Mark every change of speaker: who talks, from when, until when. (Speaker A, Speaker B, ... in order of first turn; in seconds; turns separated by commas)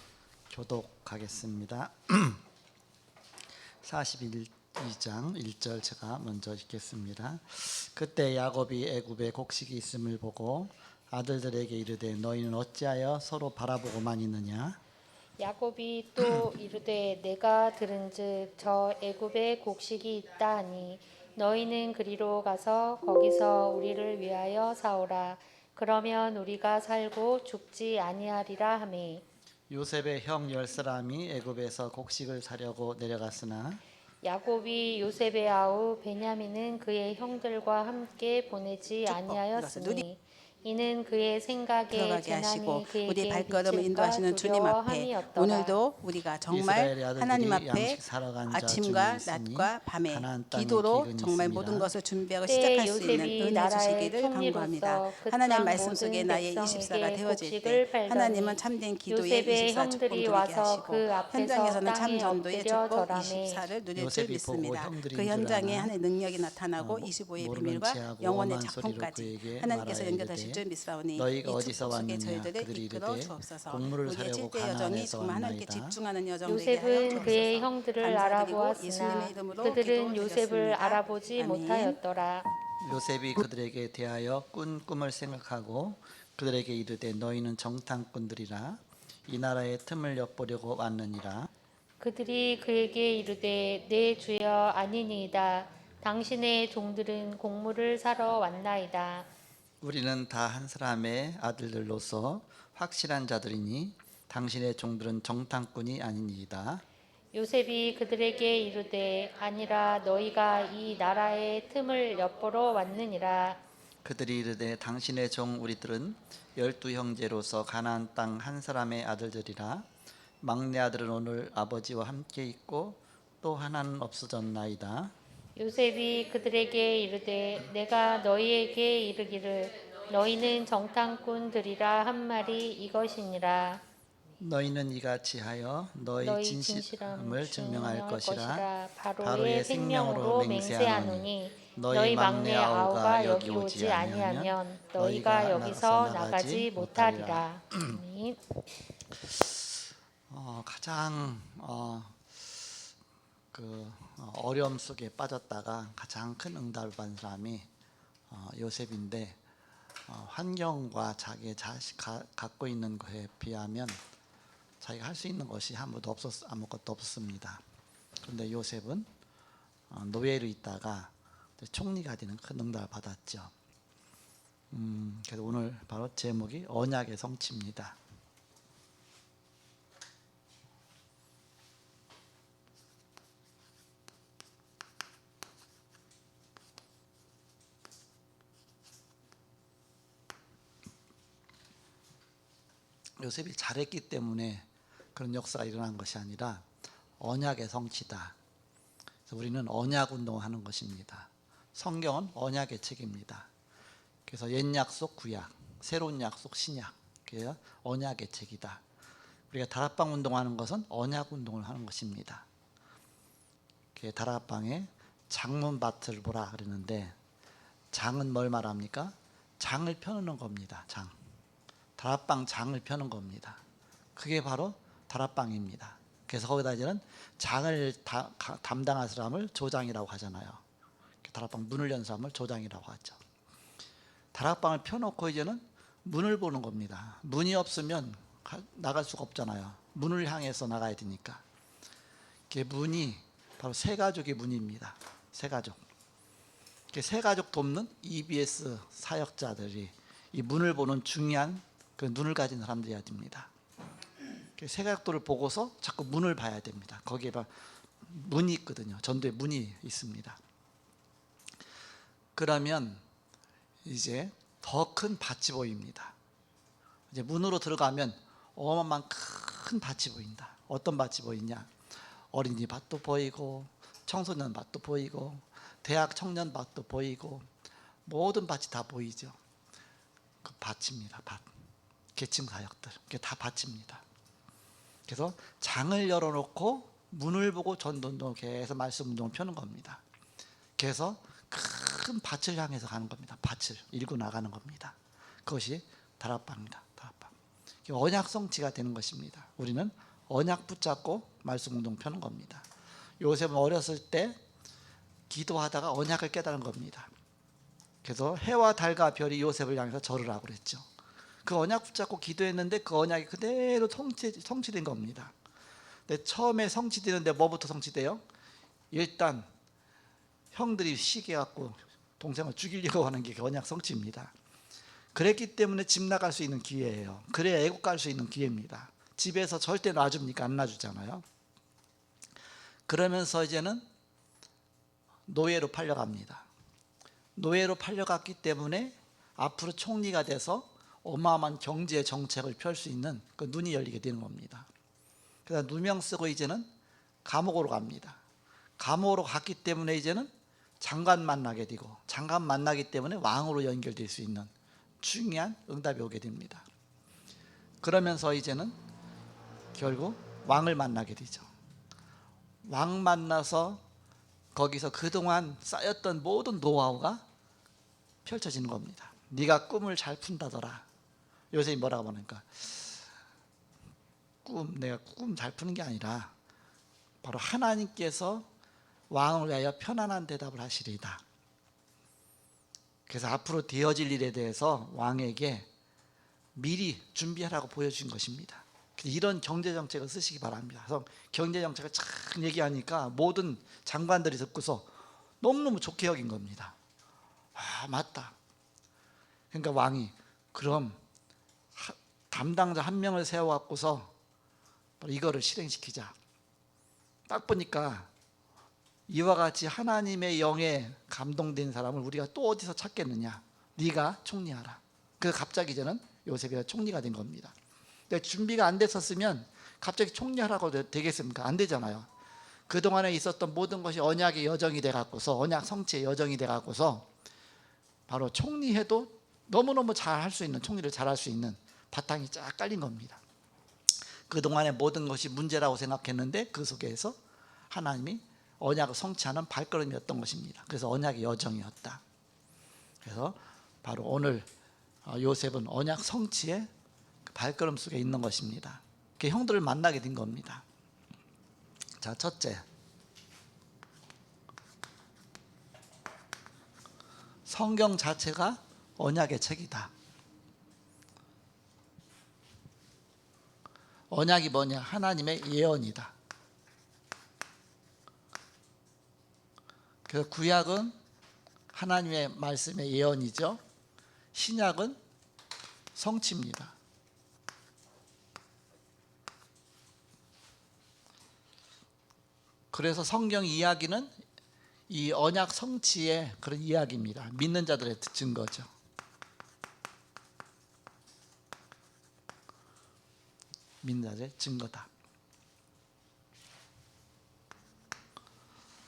Speaker A: 0.5-2.4, Speaker A: 3.8-14.8, Speaker B: 15.4-29.2, Speaker A: 29.7-33.8, Speaker B: 34.2-45.8, Speaker C: 39.0-40.0, Speaker C: 41.9-82.0, Speaker A: 46.5-51.9, Speaker B: 52.4-63.6, Speaker A: 64.0-65.9, Speaker A: 66.8-70.6, Speaker A: 71.1-76.0, Speaker B: 76.4-82.5, Speaker A: 82.8-91.5, Speaker B: 92.0-99.3, Speaker A: 99.8-106.8, Speaker B: 107.3-113.6, Speaker A: 114.0-119.9, Speaker A: 120.4-125.1, Speaker B: 125.6-133.8, Speaker A: 134.4-138.7, Speaker B: 136.2-148.4, Speaker A: 139.2-148.0, Speaker A: 149.2-149.7, Speaker A: 150.3-152.2, Speaker A: 153.5-157.7, Speaker A: 158.3-159.4, Speaker A: 160.1-164.0, Speaker A: 164.8-167.6, Speaker A: 168.2-169.1, Speaker A: 169.9-173.5, Speaker A: 174.7-178.0, Speaker A: 193.2-196.7, Speaker A: 197.2-198.3, Speaker A: 199.3-203.5, Speaker A: 204.3-208.8, Speaker A: 209.5-212.4, Speaker A: 213.9-217.2, Speaker A: 217.9-221.1, Speaker A: 222.0-223.6, Speaker A: 224.1-230.6, Speaker A: 231.2-233.2, Speaker A: 234.3-241.4, Speaker A: 242.5-245.8, Speaker A: 246.9-253.5, Speaker A: 254.6-257.5, Speaker A: 258.0-260.4, Speaker A: 262.4-263.0, Speaker A: 263.8-266.1, Speaker A: 267.1-271.7, Speaker A: 272.3-277.5, Speaker A: 278.1-279.4, Speaker A: 280.4-281.4, Speaker A: 282.1-284.0, Speaker A: 285.1-290.0, Speaker A: 290.8-297.3, Speaker A: 297.9-302.6, Speaker A: 303.2-304.4, Speaker A: 305.3-307.1, Speaker A: 308.0-310.9, Speaker A: 311.4-315.3, Speaker A: 316.1-318.2, Speaker A: 318.9-319.5, Speaker A: 320.5-324.3, Speaker A: 325.1-331.2, Speaker A: 332.9-333.8, Speaker A: 335.3-336.5, Speaker A: 337.4-344.7, Speaker A: 345.4-346.7, Speaker A: 347.2-348.2, Speaker A: 348.8-354.5, Speaker A: 355.0-356.7, Speaker A: 357.8-358.8, Speaker A: 359.7-361.5, Speaker A: 362.6-363.8, Speaker A: 364.5-367.2, Speaker A: 368.2-370.8, Speaker A: 371.5-373.0, Speaker A: 374.4-376.3, Speaker A: 377.2-378.5, Speaker A: 379.1-381.2, Speaker A: 383.1-385.7, Speaker A: 386.5-396.7, Speaker A: 397.5-398.4, Speaker A: 399.5-401.0, Speaker A: 401.7-404.1, Speaker A: 405.0-406.1, Speaker A: 407.3-408.1, Speaker A: 409.1-417.5, Speaker A: 418.1-422.1, Speaker A: 422.7-427.1, Speaker A: 428.1-433.2, Speaker A: 434.3-437.2, Speaker A: 437.7-442.0, Speaker A: 443.0-444.5, Speaker A: 445.0-446.7, Speaker A: 447.2-450.6, Speaker A: 452.0-452.6, Speaker A: 457.4-459.9, Speaker A: 464.1-466.1, Speaker A: 470.1-470.9, Speaker A: 471.7-473.6, Speaker A: 474.3-475.0, Speaker A: 475.9-476.7, Speaker A: 482.7-484.1, Speaker A: 484.9-488.7, Speaker A: 493.8-494.9